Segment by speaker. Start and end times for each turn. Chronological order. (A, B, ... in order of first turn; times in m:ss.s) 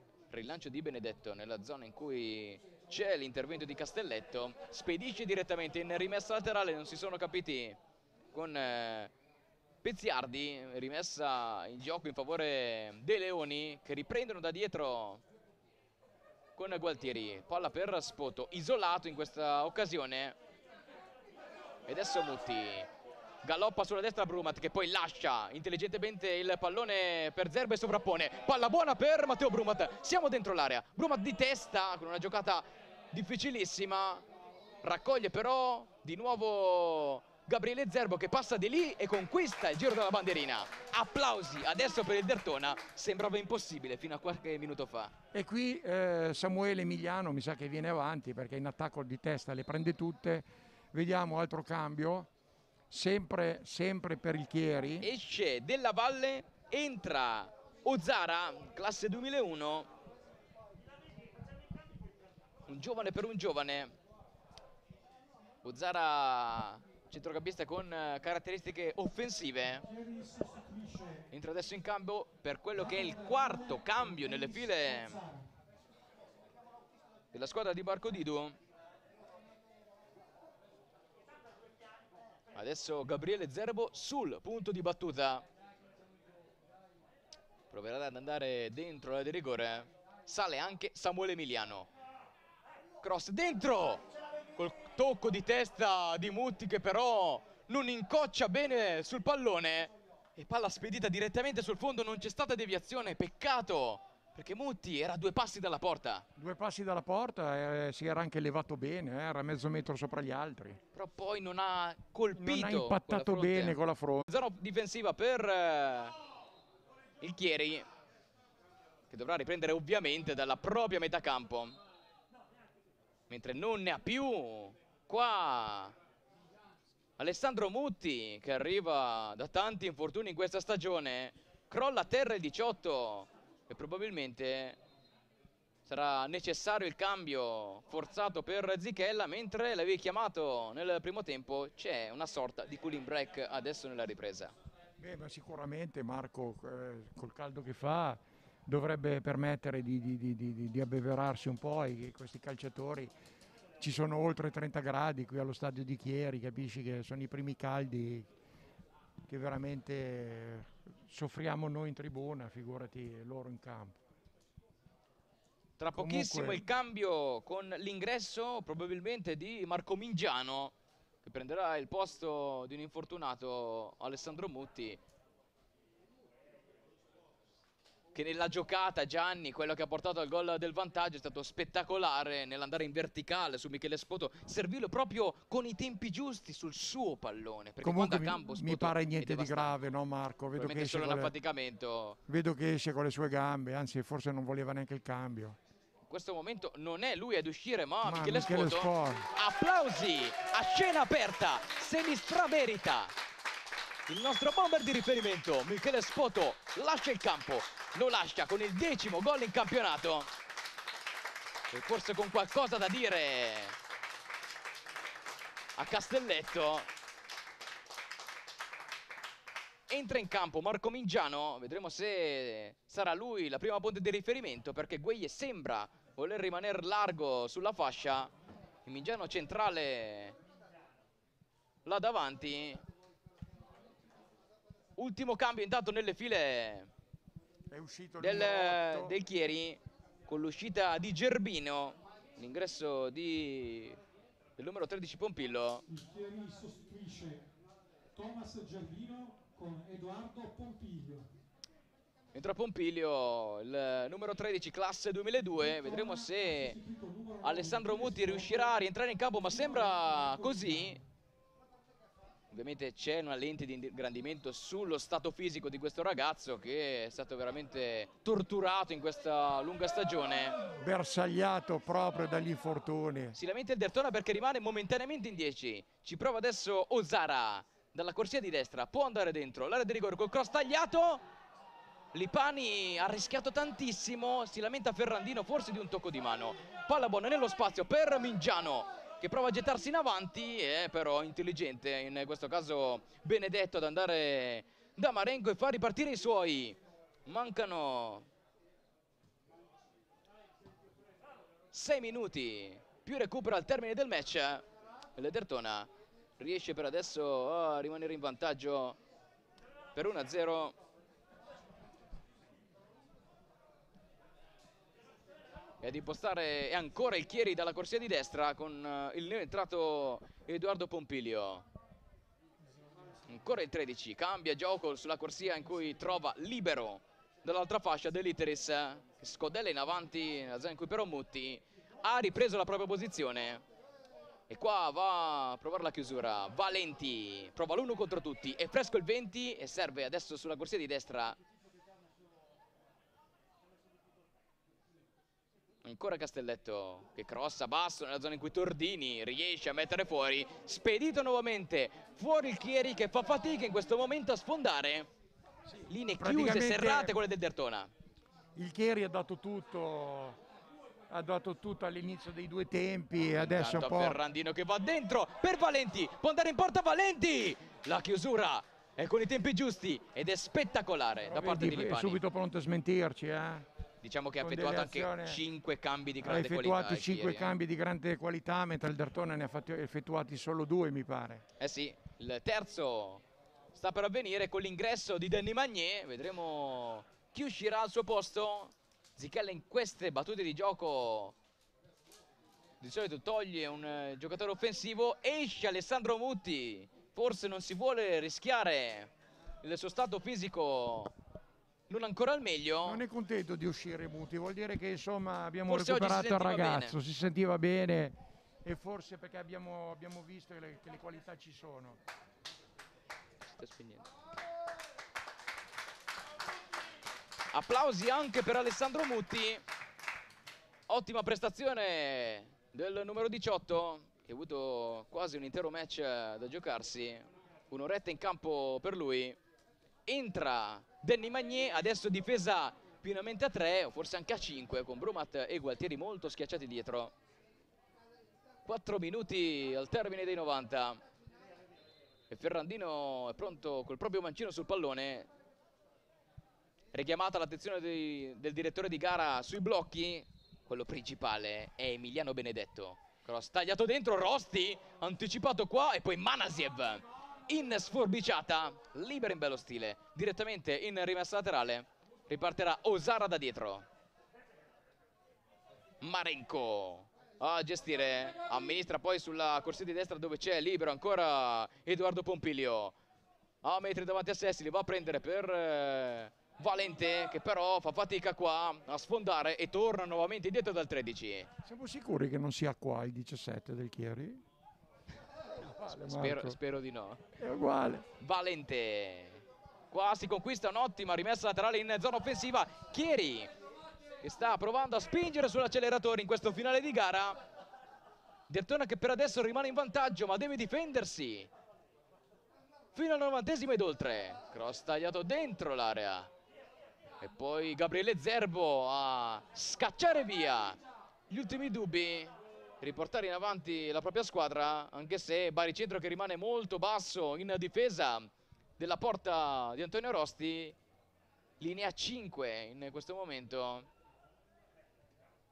0:00.3-0:07.8 A
0:08.3-0:09.1 A
0:09.8-0:15.2 A
0:16.6-0:20.4 A
0:21.9-0:22.9 A
0:23.4-0:34.2 A
0:34.8-0:45.1 A
0:45.3-0:52.3 B
0:52.9-0:55.1 B
0:55.0-0:59.9 A
1:02.7-1:03.9 A
1:05.6-1:09.8 A
1:09.8-1:11.3 C
1:11.3-1:15.2 A
1:12.8-1:15.5 C
1:17.3-1:18.6 A
1:22.5-1:25.4 A
1:27.7-1:31.9 A
1:33.0-1:34.0 A
1:34.6-1:46.2 A
1:46.4-1:50.8 B
1:50.9-1:56.1 A
1:52.4-1:54.3 B
1:57.2-1:57.9 A
1:59.1-2:01.8 A
2:03.3-2:05.9 A
2:07.2-2:14.8 A
2:15.8-2:24.5 A
2:25.0-2:33.1 B
2:33.8-2:38.3 B
2:39.3-2:44.0 B
2:45.8-2:55.0 A
2:45.9-2:46.6 B
2:58.1-3:09.8 A
3:07.8-3:11.3 B
3:10.6-3:12.2 A
3:12.3-3:15.6 B
3:16.0-3:23.1 A
3:18.0-3:19.3 B
3:24.1-3:30.3 A
3:31.7-3:33.8 A
3:35.8-3:36.9 A
3:39.9-3:48.3 A
3:48.8-3:50.4 A
3:51.8-3:52.8 A
3:55.0-3:56.9 A
3:57.7-3:59.2 B
3:58.2-4:04.0 A
4:04.6-4:05.8 A
4:05.9-4:07.4 C
4:08.1-4:11.3 C
4:12.3-4:16.8 A
4:15.6-4:18.8 C
4:17.4-4:21.0 A
4:19.4-4:21.0 C
4:22.5-4:30.5 A
4:30.8-4:33.4 B
4:33.3-4:41.2 A
4:42.1-4:58.2 A
5:01.7-5:04.6 A
5:05.2-5:09.0 A
5:09.9-5:10.8 A
5:15.8-5:21.6 A
5:23.3-5:33.6 A
5:34.5-5:41.4 A
5:45.8-5:55.1 A
5:55.9-5:57.9 A
5:56.2-5:57.2 B
5:58.5-6:00.4 B
6:01.1-6:04.2 B
6:03.4-6:12.2 A
6:11.3-6:13.7 B
6:14.0-6:17.5 A
6:14.4-6:15.4 B
6:16.2-6:21.4 B
6:21.6-6:23.2 A
6:23.7-6:31.3 A
6:32.8-6:39.1 A
6:39.6-6:41.1 A
6:41.9-6:43.0 A
6:42.8-6:52.0 B
6:45.7-6:47.0 A
6:53.6-6:54.0 A
6:57.5-6:59.6 A
7:00.9-7:09.4 A
7:10.1-7:17.1 A
7:18.6-7:21.0 A
7:22.3-7:25.3 A
7:26.9-7:43.8 A
7:46.0-7:52.9 A
7:53.6-8:01.5 A
8:01.6-8:04.4 B
8:05.6-8:06.6 B
8:05.9-8:07.2 A
8:07.4-8:08.1 B
8:08.2-8:13.5 A
8:14.2-8:17.4 A
8:18.5-8:21.5 A
8:22.9-8:26.3 A
8:27.2-8:30.8 A
8:31.3-8:40.8 A
8:41.6-8:43.9 A